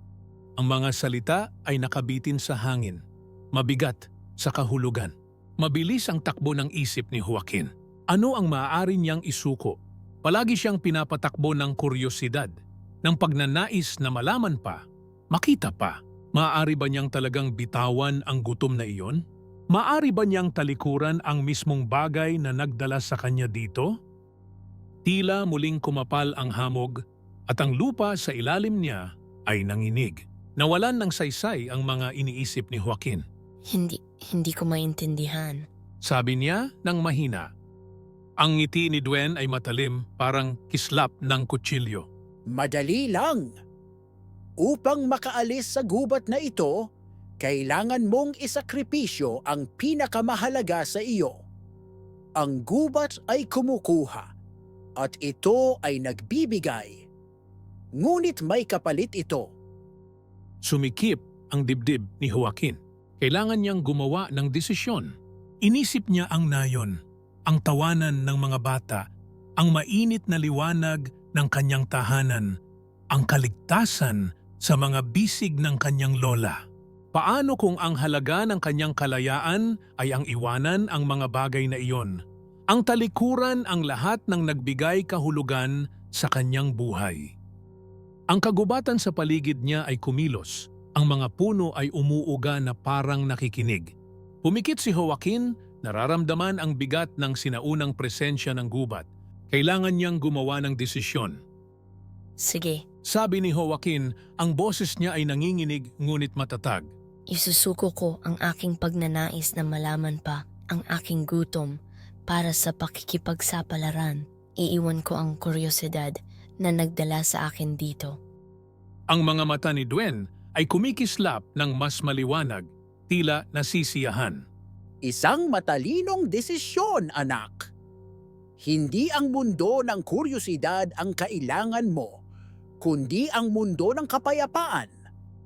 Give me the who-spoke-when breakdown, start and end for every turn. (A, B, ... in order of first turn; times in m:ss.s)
0:00.6-0:03.0 A
0:03.5-0:12.5 A
0:13.0-0:24.0 A
0:25.0-0:27.0 A
0:27.5-0:33.2 A
0:33.7-0:35.6 B
0:36.0-0:37.5 A
0:38.4-0:42.1 A
0:42.5-0:43.6 C
0:44.6-0:46.9 C
0:47.4-0:51.4 C
0:52.4-0:54.3 C
0:55.0-0:57.0 C
0:58.0-0:59.5 C
1:00.6-1:09.1 A
1:09.6-1:12.5 A
1:13.1-1:16.6 A
1:17.1-1:27.4 A
1:28.3-1:41.4 A
1:42.4-1:42.8 B
1:43.1-1:46.9 A
1:47.3-1:51.8 B
1:52.3-1:58.2 B
1:59.1-2:04.4 A
2:05.0-2:07.7 C
2:08.6-2:12.2 C
2:12.8-2:14.9 C